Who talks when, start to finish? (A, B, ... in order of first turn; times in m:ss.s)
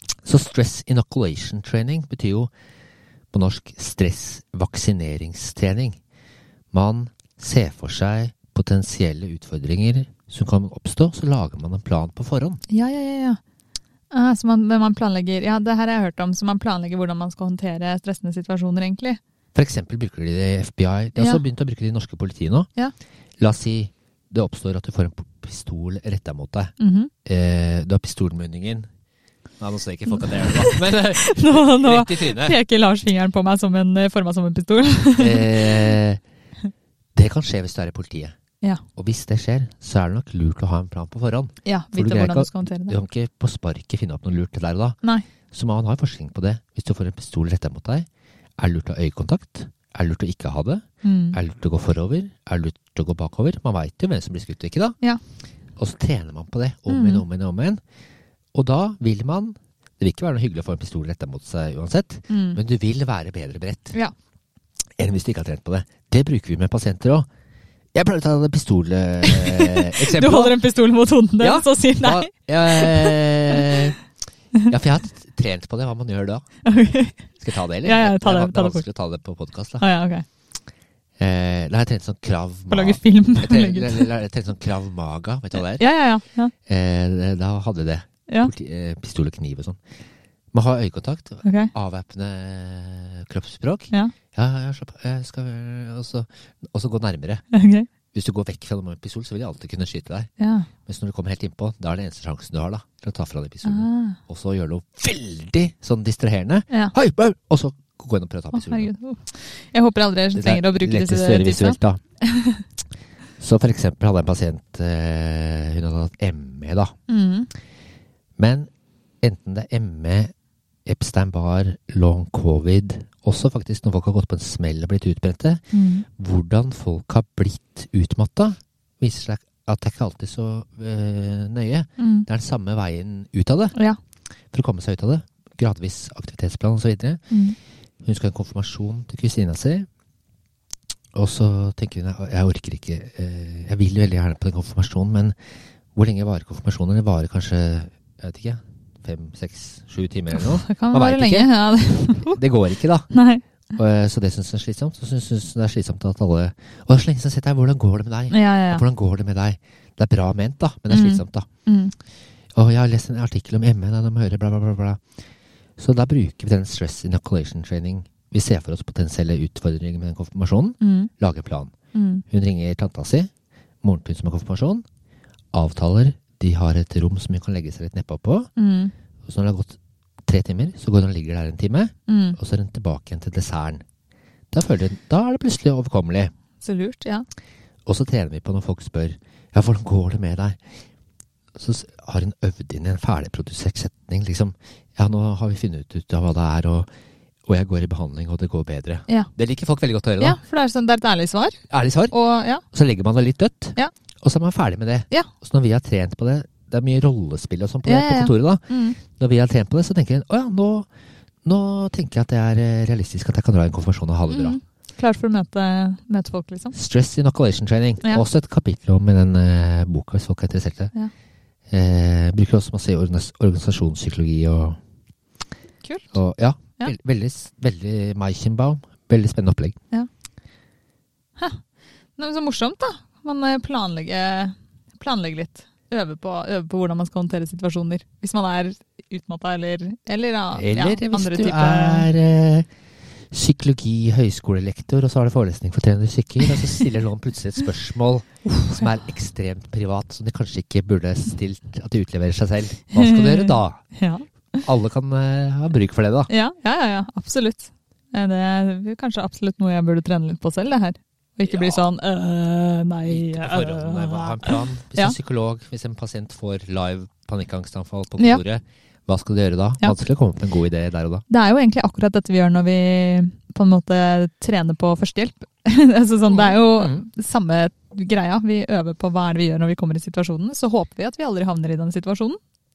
0:00.2-0:02.5 A
0:03.3-0:06.0 A
0:06.7-0:12.6 A
0:12.7-0:13.4 B
0:14.1-0:19.2 B
0:19.5-0:22.7 A
0:21.2-0:21.4 B
0:23.4-0:26.7 A
0:26.8-0:27.1 B
0:27.2-0:28.9 A
0:29.6-0:32.6 A
0:30.2-0:35.9 B
0:35.2-0:36.2 A
0:37.1-0:38.4 A
0:39.0-0:45.0 A
0:41.6-0:43.0 B
0:45.5-0:48.1 A
0:48.6-0:55.0 A
0:51.0-0:51.4 B
0:55.8-0:57.8 A
0:56.9-0:57.2 B
0:58.5-1:03.9 A
1:02.3-1:02.6 B
1:05.0-1:07.3 A
1:07.9-1:10.6 A
1:09.2-1:13.7 B
1:11.4-1:14.0 A
1:14.7-1:16.4 A
1:16.6-1:17.3 B
1:17.4-1:19.8 A
1:17.8-1:18.8 B
1:19.8-1:20.2 B
1:21.2-1:25.8 A
1:22.7-1:24.1 B
1:25.8-1:26.5 B
1:26.6-1:29.8 A
1:30.5-1:37.4 A
1:31.4-1:31.7 B
1:37.5-1:37.9 B
1:38.1-1:40.3 A
1:40.4-1:40.7 B
1:40.8-1:48.9 A
1:43.6-1:44.2 B
1:48.5-1:52.6 B
1:50.3-1:52.0 A
1:53.4-1:56.9 A
1:57.1-1:57.5 B
1:58.4-1:58.7 A
1:59.2-2:00.3 A
2:00.8-2:13.8 A
2:05.7-2:06.0 B
2:12.0-2:12.3 B
2:14.5-2:17.2 A
2:17.3-2:17.6 B
2:18.0-2:19.9 A
2:21.1-2:25.4 A
2:25.9-2:31.5 A
2:30.3-2:32.4 B
2:32.2-2:33.1 A
2:33.1-2:33.4 B
2:33.7-2:41.5 A
2:38.3-2:38.8 B
2:40.9-2:41.9 B
2:42.5-2:45.0 A
2:45.8-2:51.7 A
2:50.8-2:51.1 B
2:51.9-2:52.2 B
2:52.3-2:53.3 A
2:53.8-2:54.8 A
2:55.5-2:58.5 A
2:58.6-2:58.9 B
2:59.2-3:03.8 A
3:02.1-3:02.4 B
3:04.5-3:06.3 A
3:06.6-3:07.2 B
3:07.8-3:10.6 A
3:11.6-3:16.9 A
3:17.5-3:20.4 A
3:20.2-3:21.6 B
3:21.7-3:22.1 A
3:22.1-3:22.6 B
3:22.7-3:30.9 A
3:27.8-3:29.0 B
3:31.4-3:34.6 A
3:34.3-3:36.7 B
3:36.7-3:40.9 A
3:41.7-3:44.8 A
3:45.8-3:46.2 B
3:46.1-3:49.8 A
3:52.2-4:02.1 B
4:00.5-4:02.7 A
4:03.3-4:13.8 A
4:08.4-4:08.9 B
4:12.9-4:14.6 B
4:14.6-4:16.3 A
4:16.3-4:25.2 B
4:21.4-4:21.8 A
4:23.1-4:31.2 A
4:31.3-4:42.4 B
4:36.3-4:37.0 A